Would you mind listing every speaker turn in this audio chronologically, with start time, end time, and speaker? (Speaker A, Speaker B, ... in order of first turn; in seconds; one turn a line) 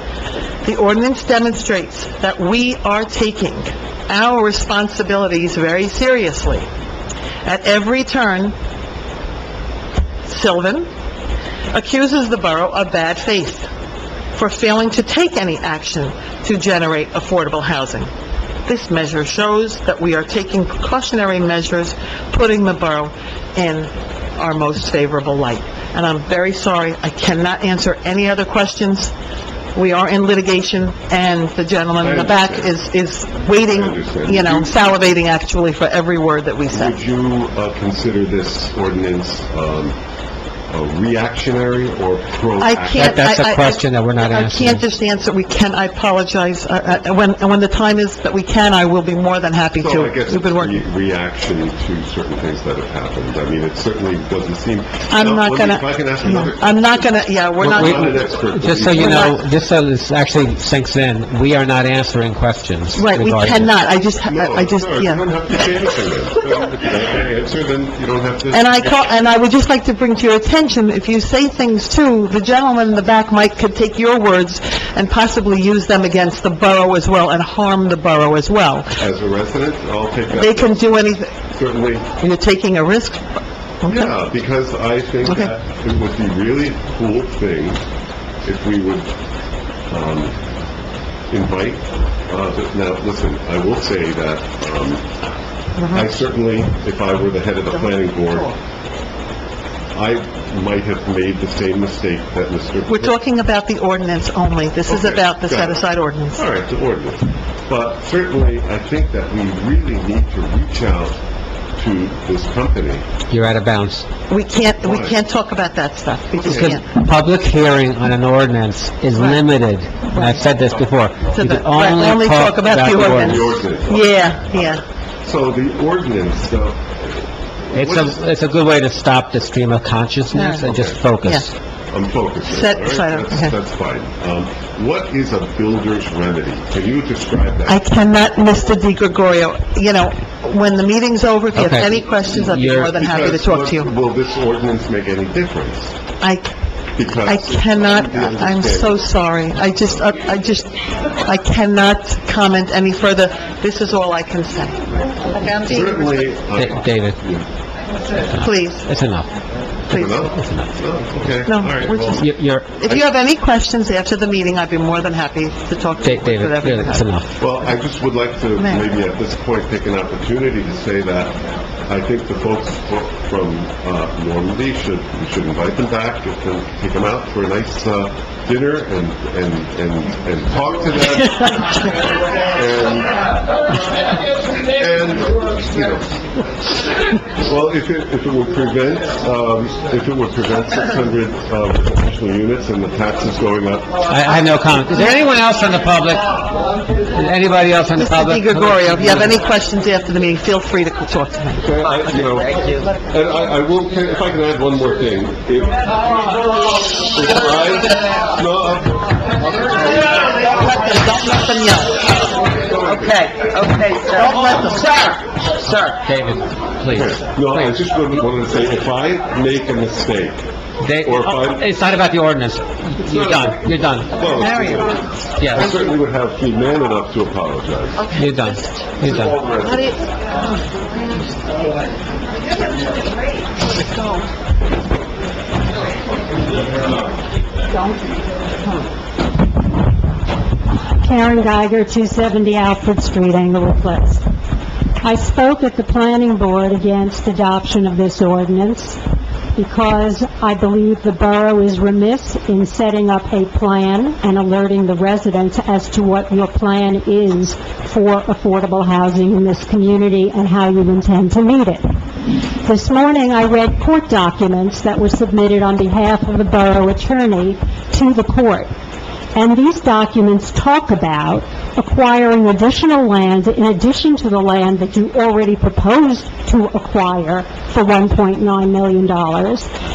Speaker A: 0.6-6.7
Speaker A: 7.4-8.6
Speaker A: 10.2-10.9
Speaker A: 11.7-13.7
Speaker A: 14.3-18.1
Speaker A: 18.7-29.1
Speaker A: 29.8-37.0
Speaker B: 32.0-32.7
Speaker B: 33.7-34.7
Speaker B: 36.7-40.0
Speaker B: 40.7-43.3
Speaker A: 42.6-50.8
Speaker C: 43.0-44.8
Speaker B: 49.8-57.1
Speaker A: 55.1-58.3
Speaker B: 57.6-59.3
Speaker C: 57.7-58.0
Speaker C: 58.5-63.7
Speaker A: 58.9-59.4
Speaker A: 63.0-65.2
Speaker B: 64.2-68.8
Speaker A: 68.5-79.0
Speaker B: 79.0-80.9
Speaker A: 80.3-81.4
Speaker B: 81.5-82.1
Speaker A: 82.2-83.2
Speaker A: 83.8-84.1
Speaker B: 83.9-87.8
Speaker A: 85.3-85.5
Speaker B: 88.4-89.1
Speaker B: 89.9-90.3
Speaker B: 91.3-95.1
Speaker A: 95.8-96.1
Speaker B: 95.9-98.5
Speaker A: 97.7-98.5
Speaker B: 100.0-103.1
Speaker A: 102.9-106.4
Speaker B: 104.9-111.2
Speaker B: 111.8-113.0
Speaker C: 113.3-114.1
Speaker A: 114.3-116.9
Speaker B: 114.8-115.2
Speaker B: 116.4-116.8
Speaker C: 116.4-123.6
Speaker A: 119.2-119.4
Speaker A: 120.1-120.5
Speaker A: 121.3-124.8
Speaker B: 122.9-124.7
Speaker B: 125.2-128.2
Speaker C: 127.7-131.5
Speaker A: 130.3-130.6
Speaker B: 130.7-131.0
Speaker B: 131.9-137.8
Speaker A: 132.5-133.6
Speaker A: 137.7-143.9
Speaker C: 141.5-142.9
Speaker B: 142.8-145.9
Speaker A: 146.2-146.5
Speaker B: 147.0-149.1
Speaker A: 147.2-156.2
Speaker B: 155.7-157.5
Speaker C: 156.6-157.2
Speaker A: 158.3-158.9
Speaker C: 158.4-159.3
Speaker A: 159.9-160.2
Speaker B: 159.9-162.3
Speaker C: 160.4-160.7
Speaker A: 161.5-162.3
Speaker C: 162.2-162.7
Speaker A: 162.8-167.1
Speaker C: 166.0-167.3
Speaker B: 167.4-183.5
Speaker A: 168.6-168.8
Speaker B: 184.6-186.1
Speaker B: 187.4-194.1
Speaker C: 194.1-199.3
Speaker A: 198.0-202.4
Speaker B: 201.6-209.7
Speaker A: 209.9-212.1
Speaker A: 212.7-216.0
Speaker C: 216.0-217.8
Speaker B: 216.9-220.4
Speaker C: 220.8-224.4
Speaker B: 221.0-221.7
Speaker B: 223.1-223.6
Speaker B: 224.1-228.1
Speaker A: 224.3-225.7
Speaker C: 225.4-225.7
Speaker A: 228.0-228.8
Speaker C: 228.2-229.3
Speaker B: 229.0-229.9
Speaker A: 229.6-230.0
Speaker A: 233.8-234.3
Speaker D: 241.0-244.2
Speaker D: 245.0-249.0
Speaker D: 249.6-261.9
Speaker D: 262.6-268.7
Speaker D: 269.4-279.7